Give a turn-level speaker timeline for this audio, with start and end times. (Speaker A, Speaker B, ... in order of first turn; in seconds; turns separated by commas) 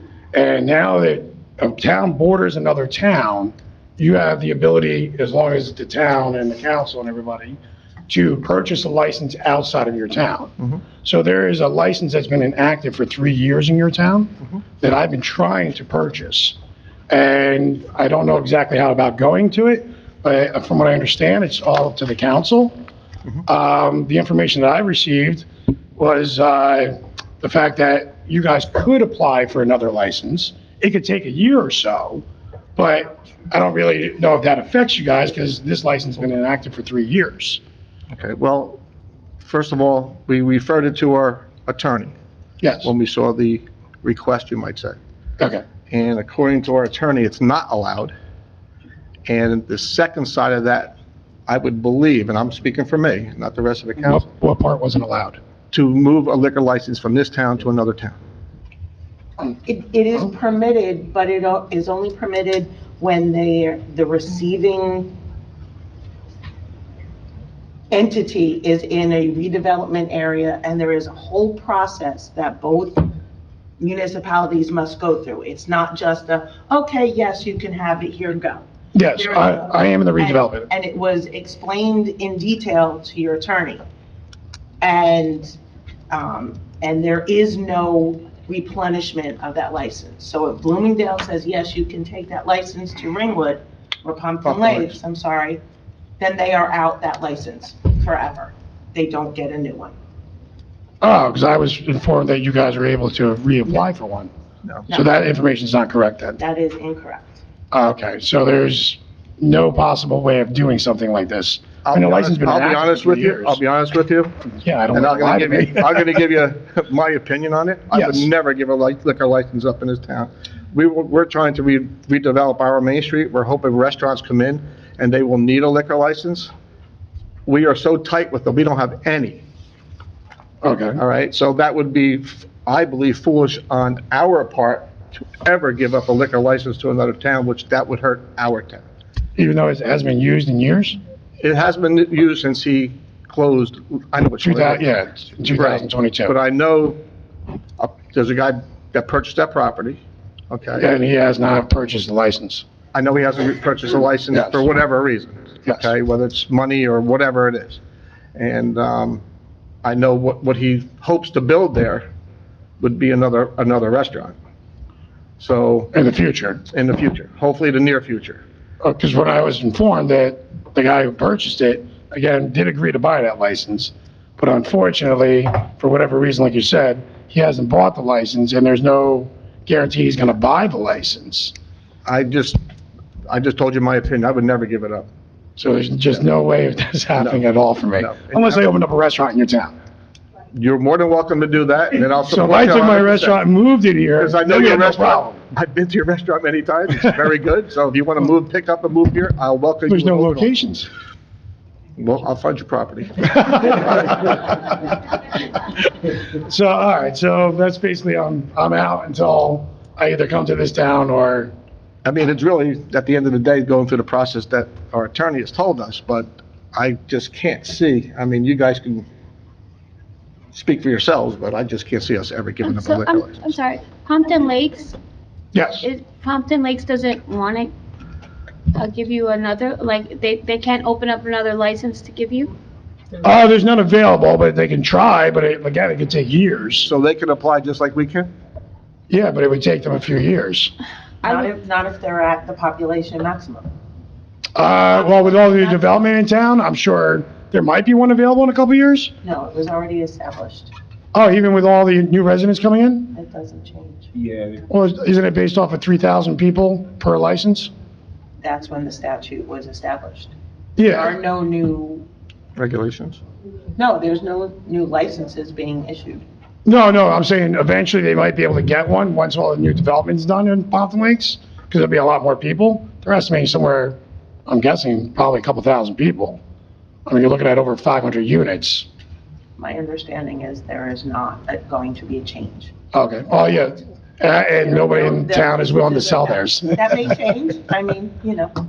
Speaker A: 0.3-16.6, Speaker A: 17.1-22.7, Speaker A: 23.4-32.2, Speaker A: 32.8-37.6, Speaker B: 38.1-38.8, Speaker B: 39.4-42.1, Speaker A: 42.6-42.9, Speaker B: 42.8-45.0, Speaker A: 45.4-45.6, Speaker B: 45.9-48.1, Speaker B: 49.2-54.2, Speaker A: 54.0-55.4, Speaker B: 55.7-58.2, Speaker C: 59.6-65.1, Speaker C: 67.9-73.1, Speaker C: 73.8-78.6, Speaker A: 78.9-80.7, Speaker C: 79.2-83.8, Speaker C: 84.8-85.5, Speaker C: 86.1-95.6, Speaker B: 94.4-94.9, Speaker C: 96.2-99.9, Speaker A: 101.0-104.3, Speaker A: 104.9-106.4, Speaker C: 106.4-107.4, Speaker A: 107.7-113.6, Speaker B: 111.8-114.4, Speaker A: 114.4-116.0, Speaker B: 114.9-126.5, Speaker A: 117.9-118.3, Speaker B: 127.5-129.4, Speaker A: 130.6-131.0, Speaker B: 131.0-138.8, Speaker A: 139.3-141.0, Speaker B: 141.4-144.8, Speaker A: 144.4-146.3, Speaker B: 145.6-147.0, Speaker B: 147.8-150.9, Speaker A: 150.8-152.6, Speaker B: 152.9-157.8, Speaker B: 158.3-159.2, Speaker B: 159.8-162.1, Speaker B: 162.8-164.3, Speaker B: 165.4-165.9, Speaker A: 165.9-166.7, Speaker B: 166.7-168.4, Speaker A: 168.8-181.5, Speaker B: 182.1-182.6, Speaker B: 183.3-185.1, Speaker A: 185.6-189.7, Speaker B: 187.2-187.4, Speaker B: 188.0-188.7, Speaker B: 190.5-193.4, Speaker A: 192.2-195.4, Speaker B: 194.2-200.5, Speaker A: 199.9-200.9, Speaker B: 201.9-204.4, Speaker A: 206.3-211.5, Speaker B: 212.0-219.1, Speaker B: 220.5-223.5, Speaker D: 222.6-224.9, Speaker A: 225.5-225.8, Speaker D: 225.8-227.7, Speaker D: 228.7-232.5, Speaker A: 233.2-236.9, Speaker B: 236.8-238.3, Speaker A: 239.1-240.7, Speaker C: 241.2-243.7, Speaker A: 244.5-249.1, Speaker C: 245.0-245.8, Speaker C: 249.2-250.7, Speaker A: 251.1-253.1, Speaker C: 253.1-254.1, Speaker A: 254.7-257.7, Speaker C: 258.4-262.1, Speaker A: 260.8-261.1, Speaker B: 262.6-263.2, Speaker C: 263.7-266.2, Speaker A: 266.6-276.4, Speaker A: 277.1-278.9, Speaker C: 279.6-282.7, Speaker A: 282.9-287.1, Speaker C: 284.6-288.5